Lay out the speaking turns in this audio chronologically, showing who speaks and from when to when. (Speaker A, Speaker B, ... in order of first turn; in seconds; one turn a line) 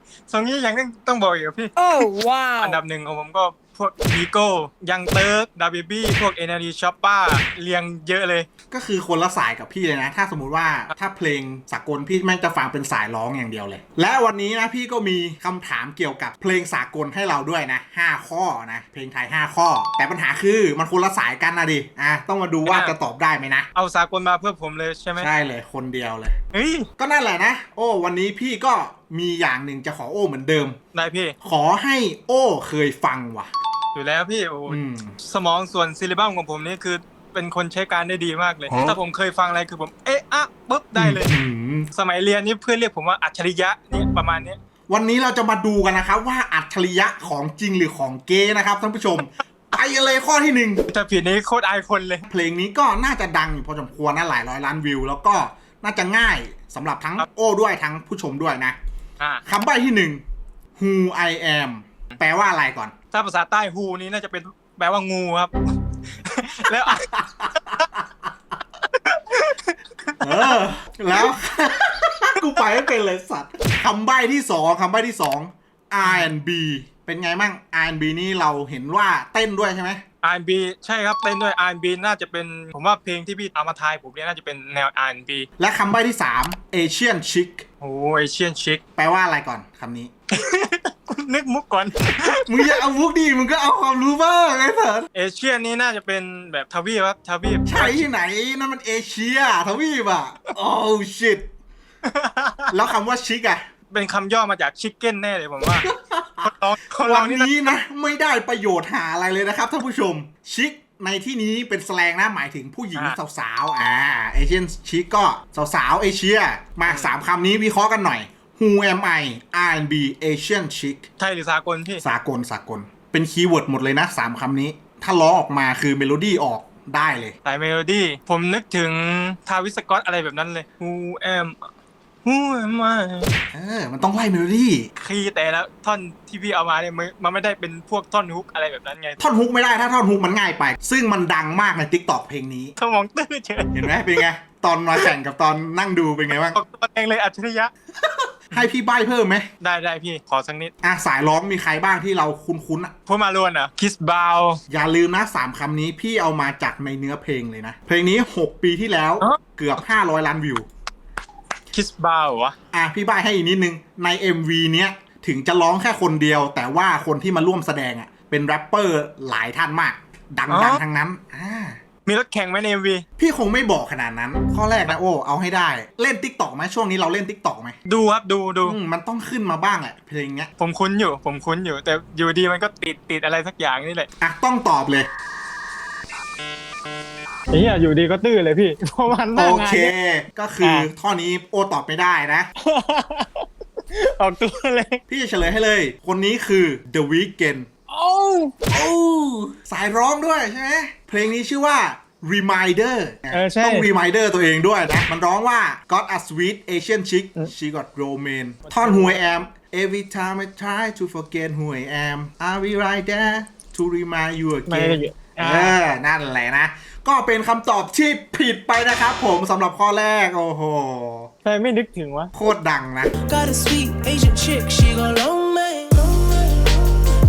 Speaker A: 0.3-1.9
Speaker B: 1.8-2.8
Speaker A: 2.6-8.5
Speaker C: 8.7-23.7
Speaker A: 22.7-22.9
Speaker A: 23.7-25.3
Speaker C: 25.2-26.4
Speaker A: 26.5-26.9
Speaker C: 27.0-30.8
Speaker A: 30.9-31.3
Speaker C: 31.4-33.5
Speaker A: 33.9-41.3
Speaker C: 34.7-35.2
Speaker C: 40.9-41.9
Speaker A: 41.9-44.6
Speaker C: 44.9-50.8
Speaker A: 50.9-52.2
Speaker C: 52.3-58.8
Speaker C: 59.5-60.2
Speaker C: 60.8-62.9
Speaker A: 63.1-65.5
Speaker A: 66.2-67.9
Speaker C: 66.8-68.3
Speaker A: 69.0-70.5
Speaker C: 70.2-80.0
Speaker A: 80.2-85.5
Speaker C: 85.6-87.6
Speaker A: 87.8-88.8
Speaker C: 89.0-90.1
Speaker A: 90.3-92.8
Speaker C: 92.3-95.1
Speaker A: 95.1-98.1
Speaker C: 97.7-101.5
Speaker A: 102.0-102.7
Speaker C: 102.7-103.6
Speaker A: 103.9-105.9
Speaker C: 105.8-121.1
Speaker A: 106.4-107.5
Speaker A: 121.2-122.0
Speaker C: 122.0-127.3
Speaker A: 127.4-131.6
Speaker A: 132.2-133.3
Speaker C: 133.5-134.9
Speaker A: 135.0-139.2
Speaker C: 139.2-142.7
Speaker A: 142.8-143.9
Speaker C: 143.7-146.6
Speaker A: 146.4-147.7
Speaker C: 148.0-149.5
Speaker A: 149.6-150.7
Speaker C: 150.8-152.9
Speaker A: 153.1-154.6
Speaker C: 154.7-160.7
Speaker A: 161.7-162.6
Speaker C: 162.7-171.8
Speaker A: 170.5-170.8
Speaker A: 172.1-173.0
Speaker C: 173.2-177.8
Speaker A: 177.9-178.8
Speaker C: 178.6-180.5
Speaker A: 180.6-184.1
Speaker C: 184.2-185.1
Speaker A: 187.5-189.9
Speaker C: 189.3-192.5
Speaker A: 190.6-190.9
Speaker A: 192.6-195.0
Speaker C: 195.1-197.7
Speaker A: 197.9-198.6
Speaker C: 198.7-221.3
Speaker A: 203.3-203.9
Speaker A: 208.7-209.2
Speaker A: 214.7-215.8
Speaker A: 221.4-222.3
Speaker C: 222.3-223.1
Speaker B: 223.2-226.9